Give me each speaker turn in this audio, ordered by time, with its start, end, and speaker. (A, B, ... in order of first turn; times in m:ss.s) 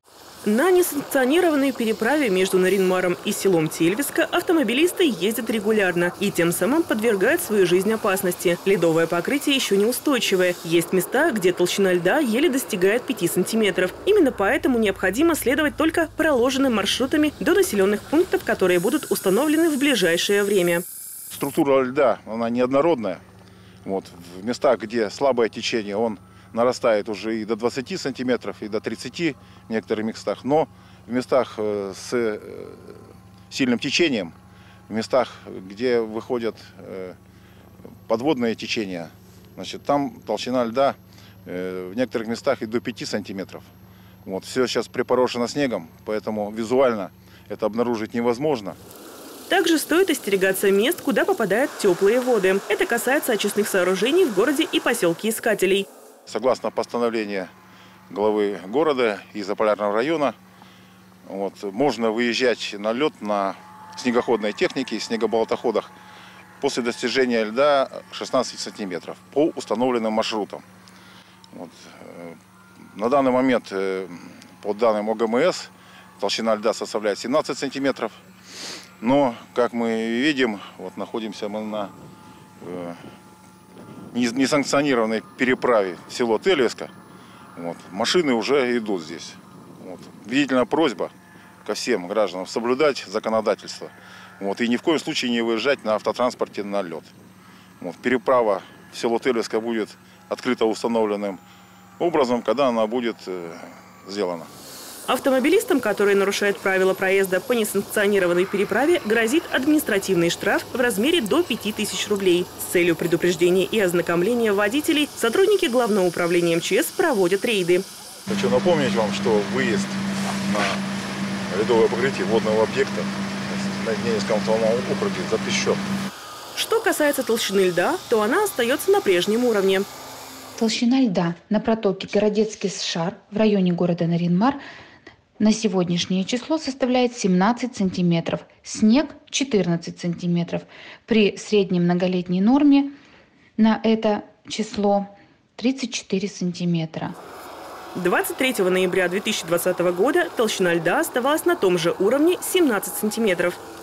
0:00.4-0:20.8 A
0:21.3-0:23.2 B
0:23.8-0:34.3 B
0:34.9-0:37.2 B
0:38.1-0:43.7 B
0:44.2-0:48.8 B
0:49.5-0:55.9 A
0:56.3-0:57.5 B
0:58.1-1:00.4 B
1:01.2-1:05.9 B
1:06.6-1:10.6 B
1:11.5-1:12.4 B
1:12.9-1:18.2 B
1:19.0-1:21.9 B
1:22.6-1:23.0 B
1:24.1-1:26.9 B
1:27.6-1:31.1 B
1:31.6-1:37.1 B
1:37.8-1:41.4 B
1:42.0-1:44.5 B
1:45.1-1:57.8 A
1:58.3-2:00.8 B
2:01.5-2:05.8 B
2:06.5-2:09.8 A
2:10.6-2:14.6 C
2:15.4-2:22.9 C
2:23.6-2:27.2 C
2:27.9-2:33.6 A